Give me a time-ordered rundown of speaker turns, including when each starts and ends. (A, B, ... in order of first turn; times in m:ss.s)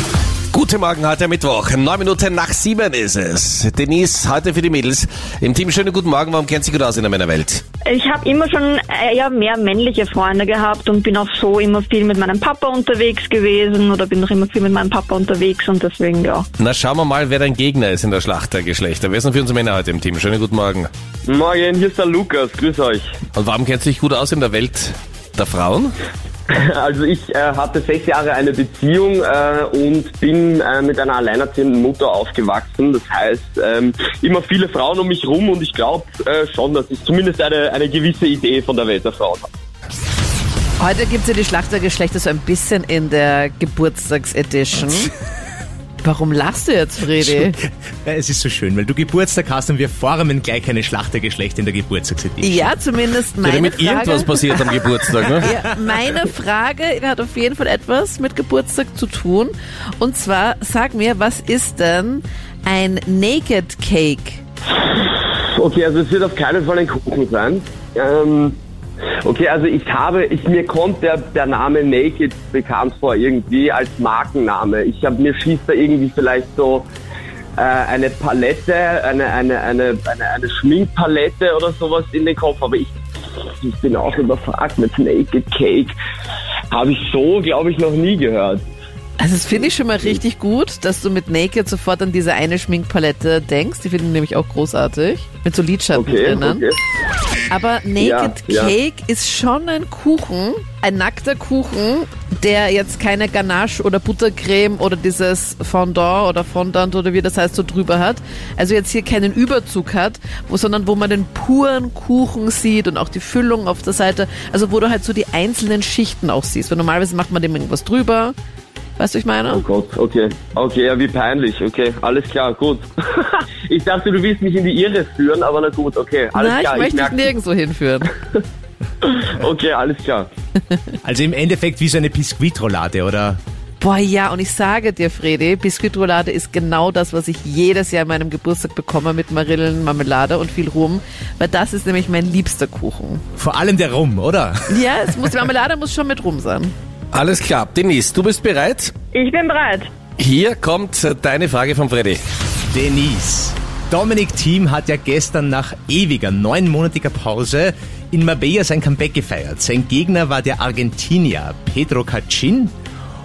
0:00.5-0:07.6 A
0:07.8-0:16.5 B
0:16.6-0:20.9 A
0:21.3-0:23.1 C
0:23.4-0:26.0 A
0:26.5-0:39.5 C
0:40.8-0:45.1 D
0:46.0-0:47.6 D
0:47.2-0:52.8 E
0:52.4-1:04.4 D
0:53.4-0:55.6 A
1:04.8-1:08.6 C
1:09.2-1:16.9 C
1:17.6-1:23.0 C
1:23.6-1:25.9 C
1:26.7-1:28.6 C
1:29.2-1:36.6 D
1:36.0-1:36.8 C
1:37.5-1:58.3 D
1:38.0-1:38.7 C
1:59.0-1:59.6 D
1:59.5-2:07.3 C
2:06.4-2:08.2 D
2:09.0-2:10.3 C
2:11.0-2:13.4 E
2:13.8-2:23.2 D
2:23.4-2:25.5 E
2:24.7-2:26.7 D
2:27.1-2:28.9 A
2:29.1-2:29.9 B
2:30.2-2:32.2 A
2:32.7-2:42.7 E